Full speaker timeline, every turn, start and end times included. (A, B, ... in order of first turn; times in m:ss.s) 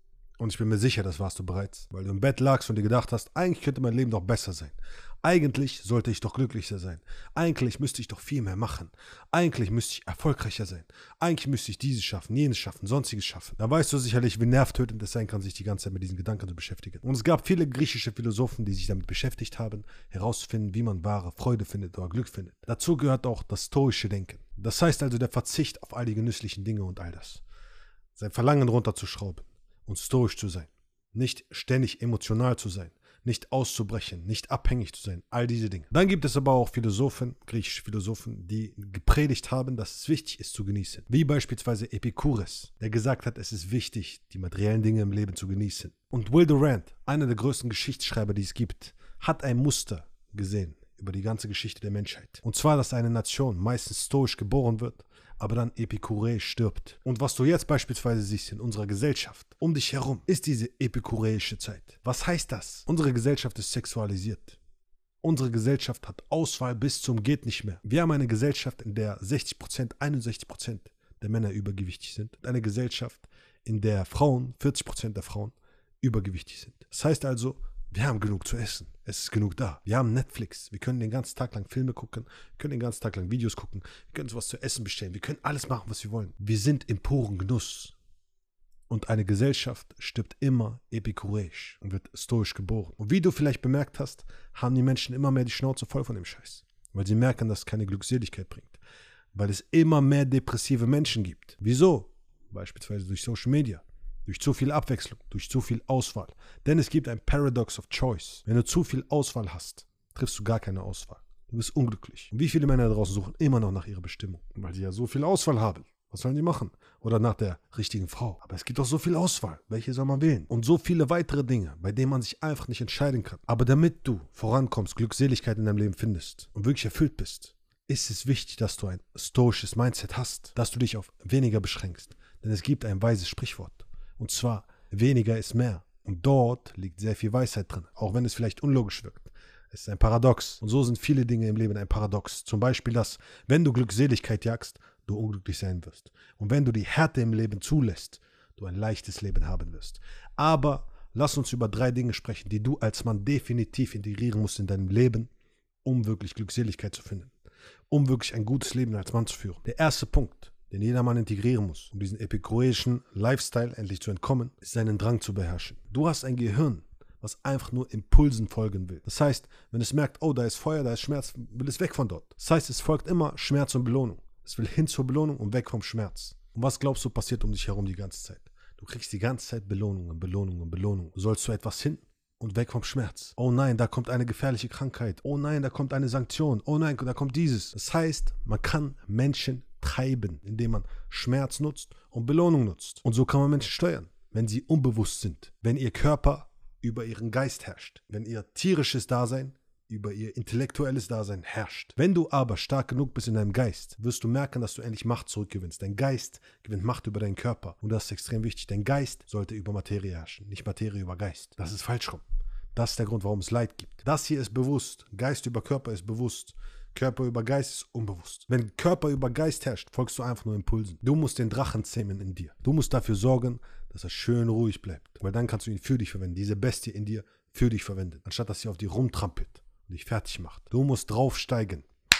0:00.4-0:27.4 A
0:28.1-1:04.6 A
1:05.2-1:27.9 A
1:28.9-1:38.8 A
1:39.3-2:35.3 A
2:35.8-2:37.3 A
2:37.9-3:32.2 A
3:32.7-3:51.9 A